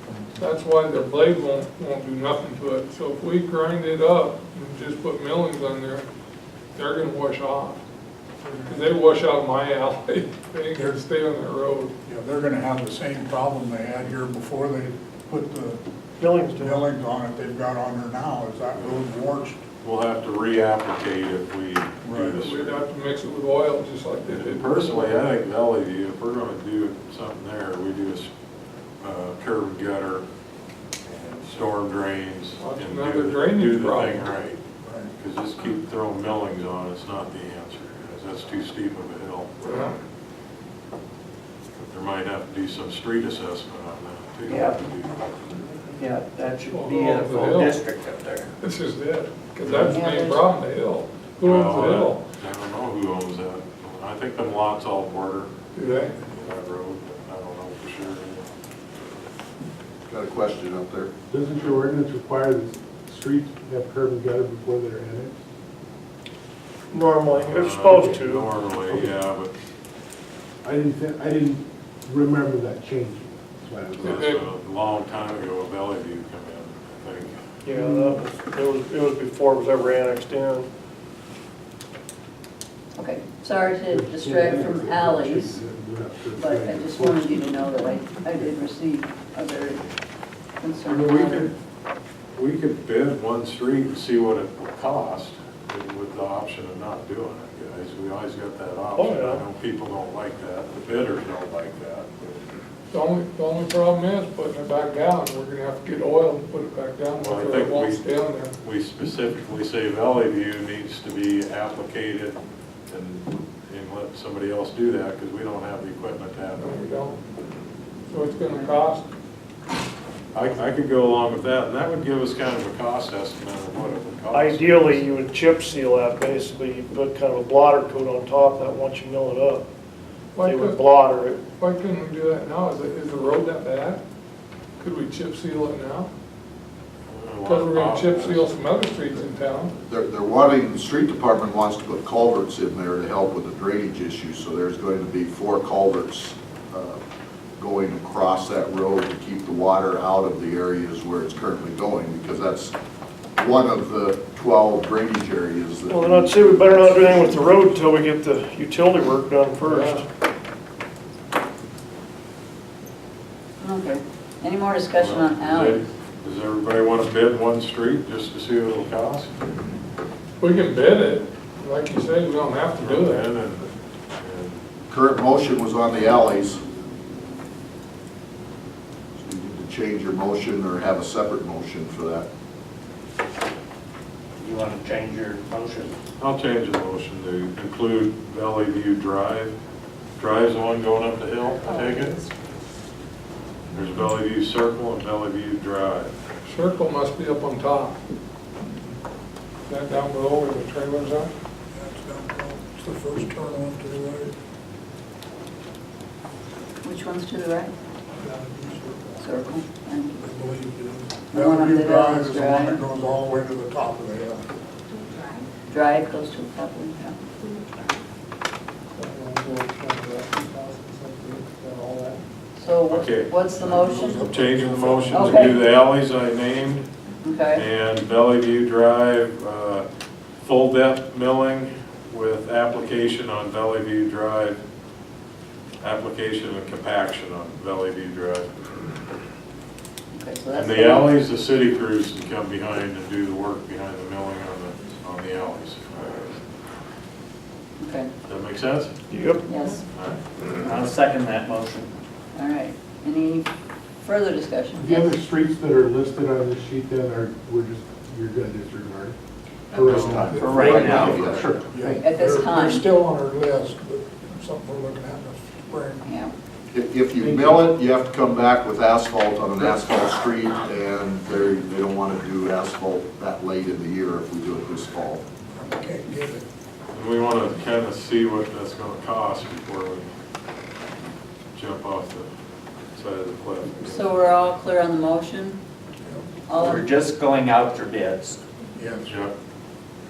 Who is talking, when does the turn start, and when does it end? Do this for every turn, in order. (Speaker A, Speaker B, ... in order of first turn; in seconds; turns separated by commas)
Speaker A: 0.4-6.0, Speaker A: 6.7-7.8, Speaker B: 8.4-9.0, Speaker A: 8.6-11.9, Speaker B: 12.1-15.8, Speaker C: 16.2-16.9, Speaker B: 16.6-19.6, Speaker D: 19.8-22.8, Speaker B: 22.0-22.4, Speaker A: 22.3-25.2, Speaker D: 24.3-28.3, Speaker D: 29.0-30.2, Speaker D: 31.1-34.6, Speaker A: 32.6-34.3, Speaker B: 34.8-35.1, Speaker D: 35.2-39.5, Speaker A: 39.6-39.9, Speaker D: 41.7-45.2, Speaker E: 44.5-44.8, Speaker E: 45.9-48.5, Speaker A: 46.7-47.8, Speaker A: 48.6-52.2, Speaker F: 49.8-50.4, Speaker D: 51.4-55.5, Speaker A: 55.7-56.1, Speaker D: 56.2-58.5, Speaker G: 60.0-61.1, Speaker H: 61.3-65.3, Speaker C: 66.9-68.5, Speaker D: 67.3-69.5, Speaker H: 68.8-69.1, Speaker H: 70.6-74.3, Speaker A: 74.0-74.4, Speaker D: 74.0-77.3, Speaker C: 77.6-80.7, Speaker H: 77.7-78.3, Speaker F: 83.0-85.6, Speaker H: 83.9-87.7, Speaker F: 86.4-89.9, Speaker F: 90.6-91.5, Speaker D: 90.8-91.5, Speaker D: 92.3-102.4, Speaker C: 99.0-99.4, Speaker A: 102.9-108.5, Speaker D: 107.2-108.0, Speaker D: 108.6-116.8, Speaker A: 116.6-117.2, Speaker A: 118.1-119.1, Speaker D: 120.3-125.1, Speaker C: 124.3-129.6, Speaker A: 130.3-130.8, Speaker C: 130.4-131.4, Speaker A: 131.4-134.0, Speaker A: 134.8-136.1, Speaker D: 137.1-138.5, Speaker A: 137.4-139.7, Speaker G: 139.9-147.0, Speaker G: 147.6-152.7, Speaker G: 153.4-157.7, Speaker C: 155.9-160.0, Speaker A: 159.6-160.0, Speaker F: 163.6-165.8, Speaker D: 164.9-169.3, Speaker A: 170.4-173.3, Speaker D: 172.8-173.7, Speaker D: 174.2-174.6, Speaker G: 174.9-176.6, Speaker G: 179.2-182.2, Speaker E: 184.4-185.9, Speaker D: 186.2-189.5, Speaker D: 190.2-192.2, Speaker D: 193.7-196.1, Speaker A: 196.4-198.0, Speaker A: 199.7-201.3, Speaker B: 201.7-204.3, Speaker F: 206.8-207.7, Speaker B: 208.2-209.3, Speaker F: 209.2-210.2, Speaker B: 210.2-214.5, Speaker F: 211.3-212.8, Speaker F: 215.7-217.2, Speaker A: 218.9-222.2, Speaker F: 222.6-224.2, Speaker D: 222.9-223.3, Speaker B: 223.6-225.5, Speaker D: 224.2-226.9, Speaker F: 225.1-225.6, Speaker F: 227.2-227.6, Speaker D: 227.5-229.8, Speaker D: 230.4-234.6, Speaker D: 235.8-239.1, Speaker F: 240.1-241.2, Speaker D: 240.5-246.4, Speaker F: 247.8-248.1, Speaker D: 248.3-248.9, Speaker C: 249.1-249.4, Speaker F: 249.4-249.8, Speaker D: 249.9-250.2, Speaker E: 250.6-251.9, Speaker F: 252.3-253.5, Speaker F: 254.0-255.1, Speaker H: 254.7-259.1, Speaker H: 259.7-262.0, Speaker D: 259.7-261.1, Speaker E: 259.7-261.5, Speaker B: 260.4-261.0, Speaker G: 260.8-261.5, Speaker B: 261.6-266.1, Speaker F: 262.0-262.8, Speaker F: 266.0-266.3, Speaker G: 266.7-275.2, Speaker H: 267.2-267.6, Speaker B: 275.5-276.4, Speaker D: 276.9-280.1, Speaker D: 281.5-282.3, Speaker D: 282.9-284.2, Speaker F: 283.7-285.6, Speaker F: 286.5-286.9, Speaker E: 286.6-288.4, Speaker B: 288.8-289.1, Speaker D: 289.0-289.3